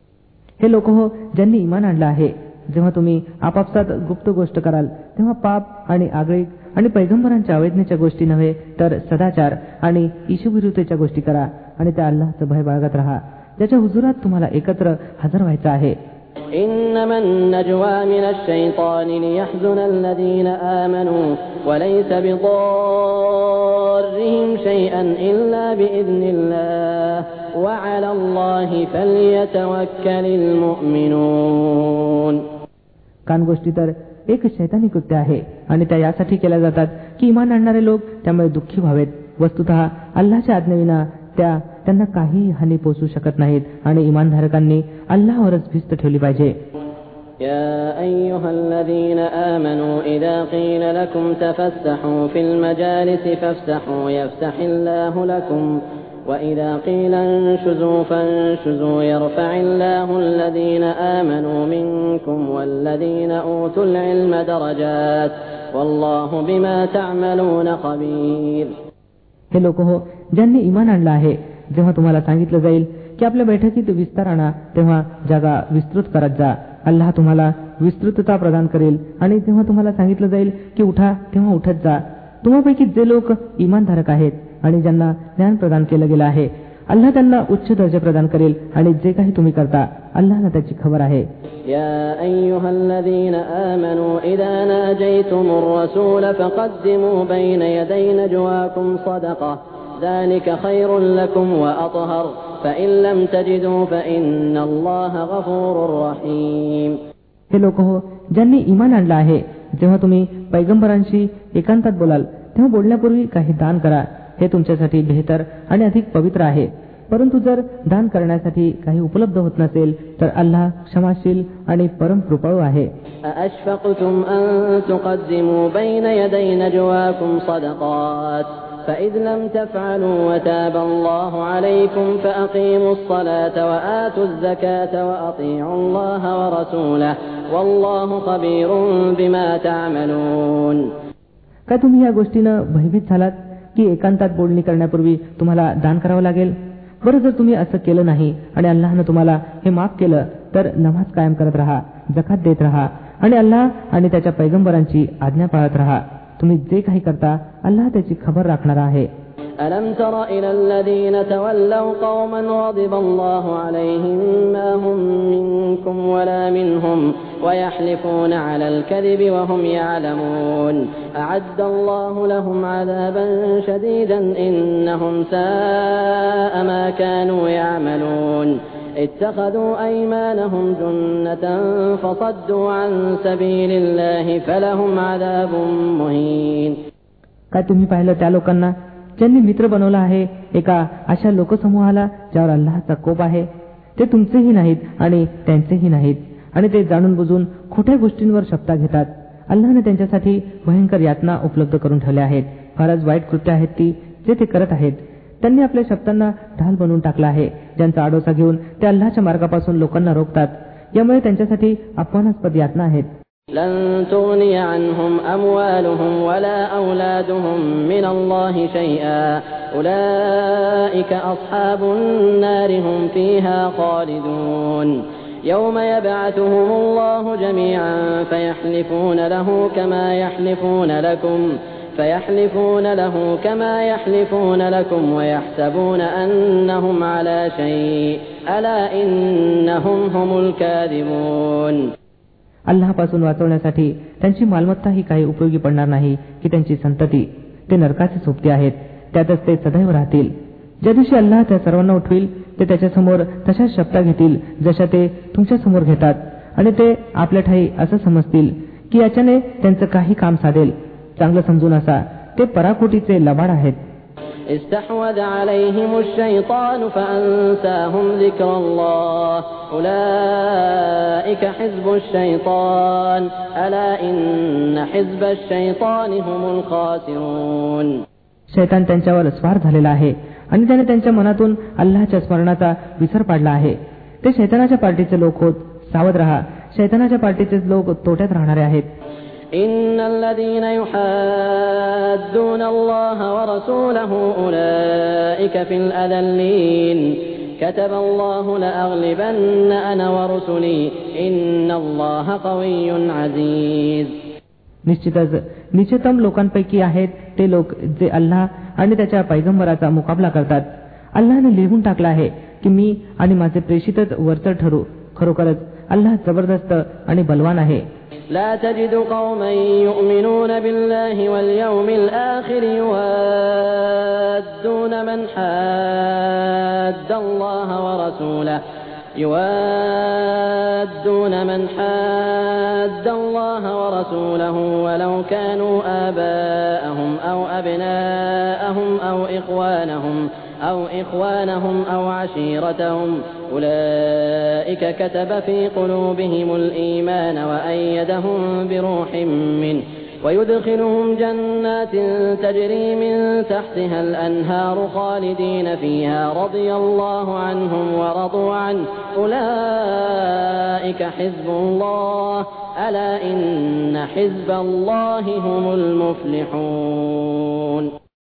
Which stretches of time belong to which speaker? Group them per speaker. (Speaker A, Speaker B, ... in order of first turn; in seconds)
Speaker A: 0.6-16.0, 33.3-46.5, 69.5-91.3, 107.5-122.9, 141.7-159.1, 187.5-213.1, 242.7-263.8, 278.5-288.9, 304.9-317.9
Speaker B: 16.5-32.4, 47.4-68.7, 91.7-107.0, 123.3-140.9, 159.6-186.8, 213.5-241.9, 264.5-278.0, 289.5-304.1, 318.3-328.6, 329.2-367.9